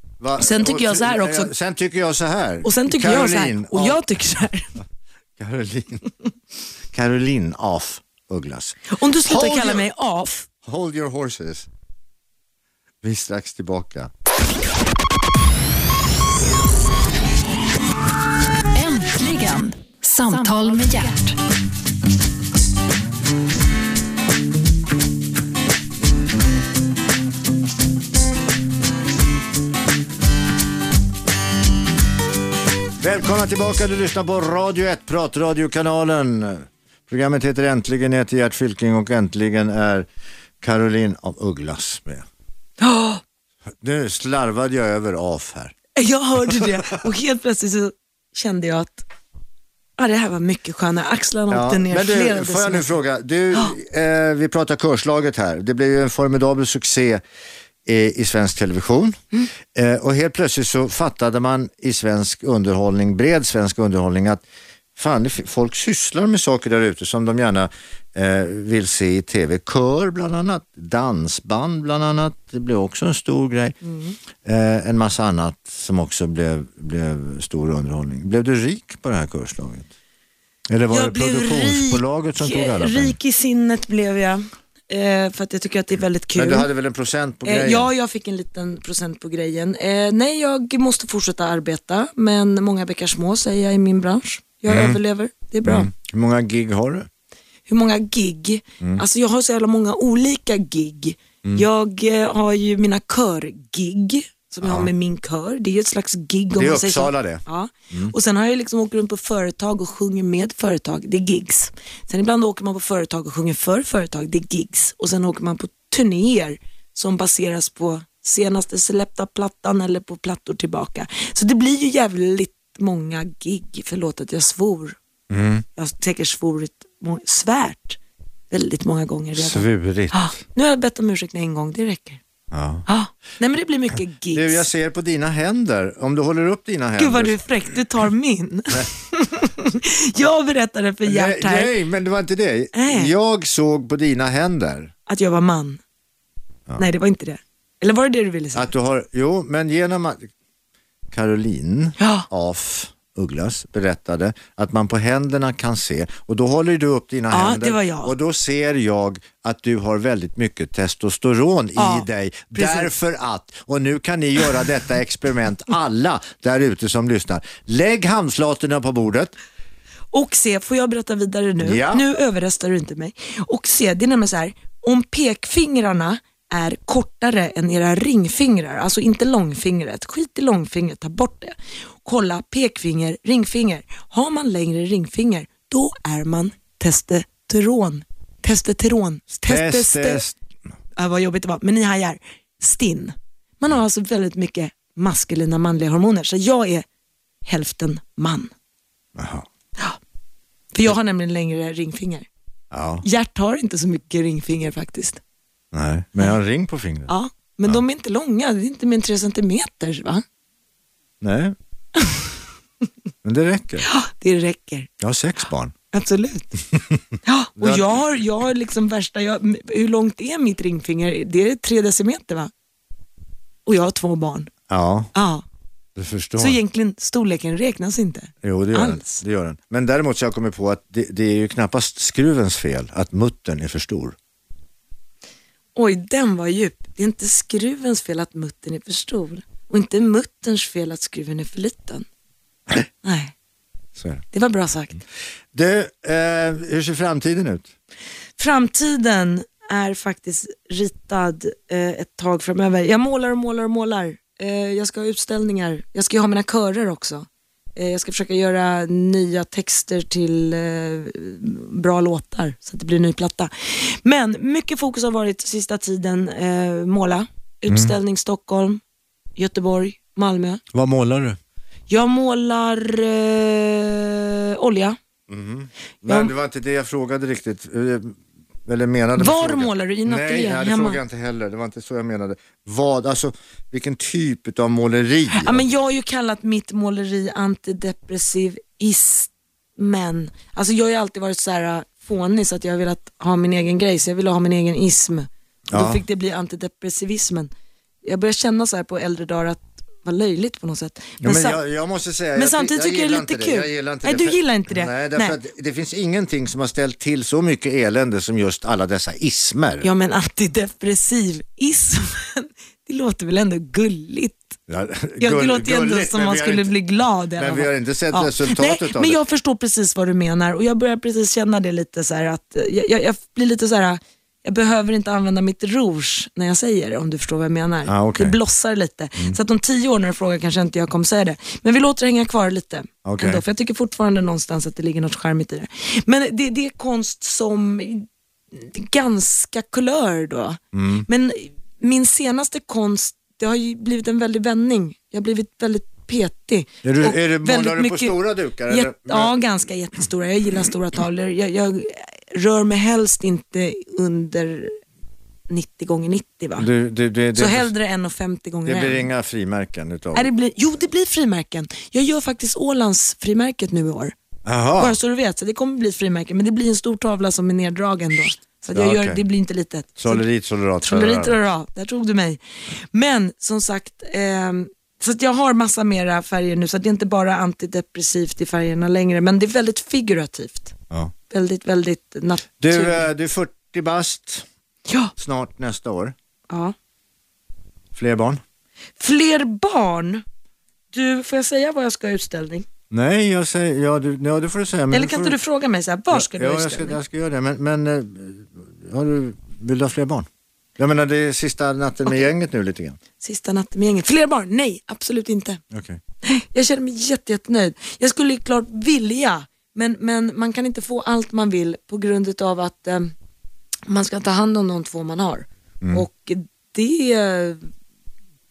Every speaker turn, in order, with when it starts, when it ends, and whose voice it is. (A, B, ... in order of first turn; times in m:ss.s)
0:00.2-0:04.0 A
0:00.4-0:01.5 B
0:02.6-0:04.7 B
0:05.4-0:06.0 A
0:06.9-0:09.9 A
0:08.9-0:10.5 B
0:10.6-0:11.7 A
0:13.0-0:14.1 A
0:18.7-0:21.4 C
0:33.0-0:40.1 A
0:40.6-0:42.2 A
0:42.8-0:43.2 B
0:43.8-0:45.7 A
0:46.0-0:49.0 B
0:50.0-0:52.9 B
0:51.5-0:57.2 A
0:57.8-0:59.2 A
0:59.7-1:04.4 A
1:05.0-1:13.8 A
1:13.8-1:14.2 B
1:14.4-1:19.9 A
1:20.7-1:23.1 A
1:20.9-1:26.7 B
1:26.3-1:27.9 A
1:27.4-1:35.9 B
1:34.7-1:35.0 A
1:35.6-1:37.1 A
1:37.7-2:05.0 B
1:44.6-1:44.9 A
1:46.6-1:48.1 A
2:05.3-2:05.6 A
2:05.8-2:08.0 B
2:08.5-2:12.2 B
2:09.4-2:10.4 A
2:12.5-2:12.8 A
2:12.9-2:14.7 B
2:14.3-2:17.4 A
2:17.0-2:21.7 B
2:21.0-2:24.9 A
2:22.7-2:23.1 B
2:25.1-2:25.8 B
2:26.8-2:28.7 B
2:28.5-2:30.3 A
2:31.1-2:49.3 A
2:32.0-2:32.3 B
2:37.3-2:38.1 B
2:41.8-2:42.9 B
2:50.1-3:10.2 B
2:51.6-2:52.0 A
3:09.4-3:10.4 A
3:11.0-3:16.8 B
3:17.4-3:18.5 B
3:19.2-3:19.5 A
3:20.7-3:22.3 B
3:22.7-3:23.0 A
3:23.0-3:25.2 B
3:25.7-3:27.1 A
3:27.1-3:30.2 B
3:31.2-3:31.5 A
3:32.0-3:32.2 B
3:33.2-3:33.9 A
3:33.8-3:34.9 B
3:35.0-3:35.7 A
3:35.9-3:36.5 B
3:36.7-3:37.0 A
3:37.2-3:42.5 B
3:37.6-3:38.0 A
3:43.6-3:44.5 B
3:44.7-3:45.1 A
3:45.1-3:45.4 B
3:46.0-3:46.6 A
3:46.4-3:49.2 B
3:48.4-3:54.2 A
3:55.8-4:02.0 B
4:03.0-4:03.3 B
4:04.0-4:04.2 A
4:04.3-4:05.0 B
4:05.5-4:07.7 A
4:08.4-4:28.8 B
4:27.7-4:28.0 A
4:29.4-4:30.6 B
4:30.7-4:31.4 A
4:31.9-4:35.0 B
4:35.3-4:45.6 A
4:36.0-4:36.3 B
4:39.2-4:41.0 B
4:45.3-4:57.5 B
4:55.7-4:56.0 A
4:58.0-5:01.6 B
5:01.2-5:09.9 A
5:02.4-5:05.4 B
5:09.8-5:14.6 B
5:14.7-5:16.7 A
5:15.2-5:48.2 B
5:17.4-5:19.2 A
5:27.9-5:28.4 A
5:33.0-5:33.4 A
5:40.7-5:41.0 A
5:46.8-5:49.3 A
5:48.7-5:54.8 B
5:55.5-5:56.7 B
5:56.6-5:57.7 A
5:57.3-5:59.1 B
5:58.6-6:00.3 A
6:00.1-6:04.1 B
6:04.4-6:05.0 A
6:04.8-6:10.2 B
6:08.7-6:09.2 A
6:10.0-6:11.4 A
6:10.8-6:12.4 B
6:12.9-6:20.7 B
6:21.3-6:23.1 B
6:22.6-6:24.4 A
6:24.9-6:25.1 B
6:25.2-6:26.1 A
6:27.9-6:28.4 A
6:29.0-6:30.2 B
6:30.9-6:32.7 B
6:32.9-6:35.4 A
6:34.9-6:37.0 B
6:36.1-6:40.3 A
6:40.8-6:43.0 A
6:43.2-6:45.6 B
6:45.7-6:46.0 A
6:46.2-6:53.1 B
6:53.9-6:57.7 B